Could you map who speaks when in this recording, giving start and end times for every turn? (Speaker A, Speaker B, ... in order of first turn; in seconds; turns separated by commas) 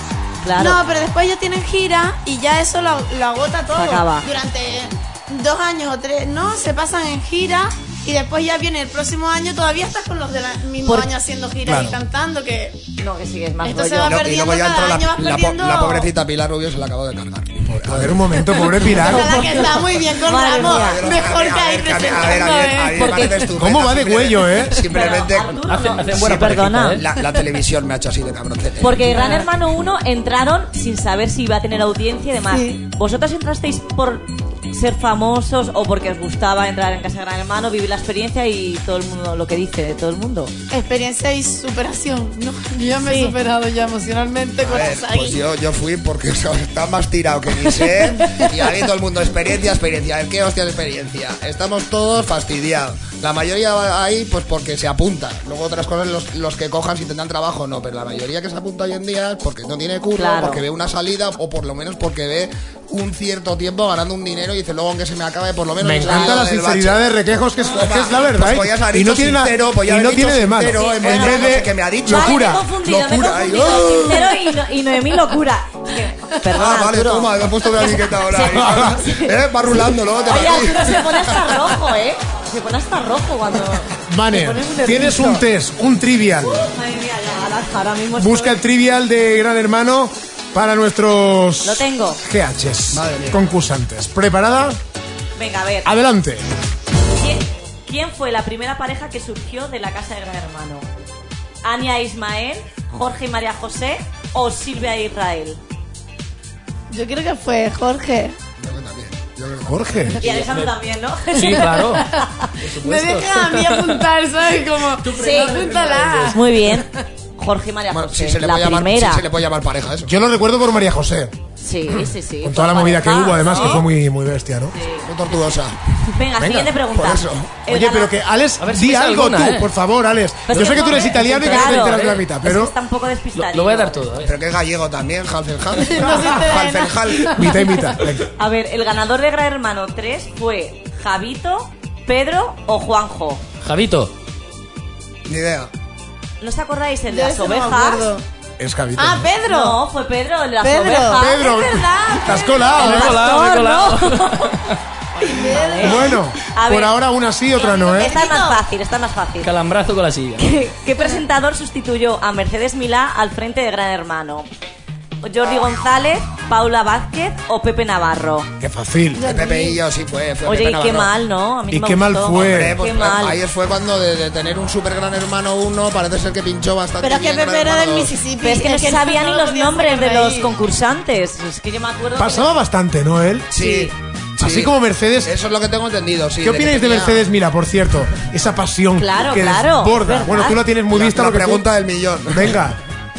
Speaker A: 0.4-0.8, Speaker B: 0.6-12.8, Speaker A: 3.7-4.3, Speaker A: 10.8-11.1, Speaker C: 11.7-11.9, Speaker A: 13.0-14.2, Speaker B: 13.6-16.1, Speaker D: 14.0-18.3, Speaker C: 17.7-19.5, Speaker B: 18.8-23.3, Speaker A: 18.9-21.0, Speaker D: 20.6-29.1, Speaker A: 22.9-23.5, Speaker C: 23.5-24.8, Speaker A: 24.9-27.0, Speaker E: 25.5-27.1, Speaker A: 28.8-40.5, Speaker B: 29.1-29.4, Speaker B: 32.5-32.8, Speaker B: 40.7-45.4, Speaker A: 43.0-43.4, Speaker D: 44.6-67.0, Speaker A: 60.2-60.6, Speaker C: 65.8-74.1, Speaker A: 66.0-66.4, Speaker D: 67.6-74.2, Speaker A: 70.7-79.3, Speaker D: 76.5-81.3, Speaker C: 78.5-79.0, Speaker A: 80.2-85.4, Speaker C: 84.1-86.6, Speaker A: 86.4-88.6, Speaker C: 88.2-94.8, Speaker A: 91.6-92.2, Speaker D: 92.9-93.5, Speaker A: 95.3-95.9, Speaker C: 95.8-96.5, Speaker A: 97.2-100.8, Speaker A: 101.6-105.6, Speaker B: 106.9-108.3, Speaker D: 108.6-110.1, Speaker C: 109.6-110.2, Speaker A: 110.2-112.0, Speaker E: 110.2-110.7, Speaker E: 111.3-112.1, Speaker E: 112.6-114.0, Speaker B: 112.8-116.4, Speaker E: 115.0-116.3, Speaker A: 115.1-115.7, Speaker A: 116.3-119.2, Speaker D: 117.9-120.1, Speaker C: 120.0-121.3, Speaker A: 121.6-123.8, Speaker C: 121.9-124.7, Speaker A: 124.7-125.5, Speaker D: 125.0-125.8, Speaker A: 126.1-128.2, Speaker C: 126.4-126.7, Speaker D: 126.9-127.5, Speaker C: 127.7-132.7, Speaker E: 128.6-129.7, Speaker A: 130.5-134.0, Speaker E: 130.5-132.2, Speaker E: 133.3-134.3, Speaker D: 134.2-137.3, Speaker B: 135.8-137.0, Speaker C: 137.3-138.3, Speaker A: 138.4-143.4, Speaker E: 143.6-144.1, Speaker D: 145.2-145.7, Speaker A: 146.4-148.1, Speaker B: 147.1-148.2, Speaker C: 148.6-149.3, Speaker B: 149.0-149.8, Speaker A: 149.5-151.7, Speaker B: 150.6-153.0, Speaker C: 151.1-153.2, Speaker A: 152.8-154.6, Speaker E: 152.8-155.8, Speaker B: 155.2-156.2, Speaker A: 155.3-156.9, Speaker C: 155.8-158.2, Speaker B: 157.6-158.6, Speaker A: 157.9-159.5, Speaker E: 159.4-160.5, Speaker A: 160.4-164.5, Speaker A: 165.2-168.5, Speaker C: 168.6-169.3, Speaker B: 169.2-169.8, Speaker D: 169.2-171.1, Speaker A: 170.4-173.4, Speaker C: 171.7-172.8, Speaker D: 172.3-178.2, Speaker B: 177.0-180.5, Speaker A: 178.4-182.5, Speaker C: 182.2-183.5, Speaker D: 183.5-187.2, Speaker A: 183.6-183.9, Speaker C: 184.4-185.3, Speaker C: 186.4-191.7, Speaker A: 189.0-190.6, Speaker D: 190.9-192.6, Speaker C: 192.3-192.8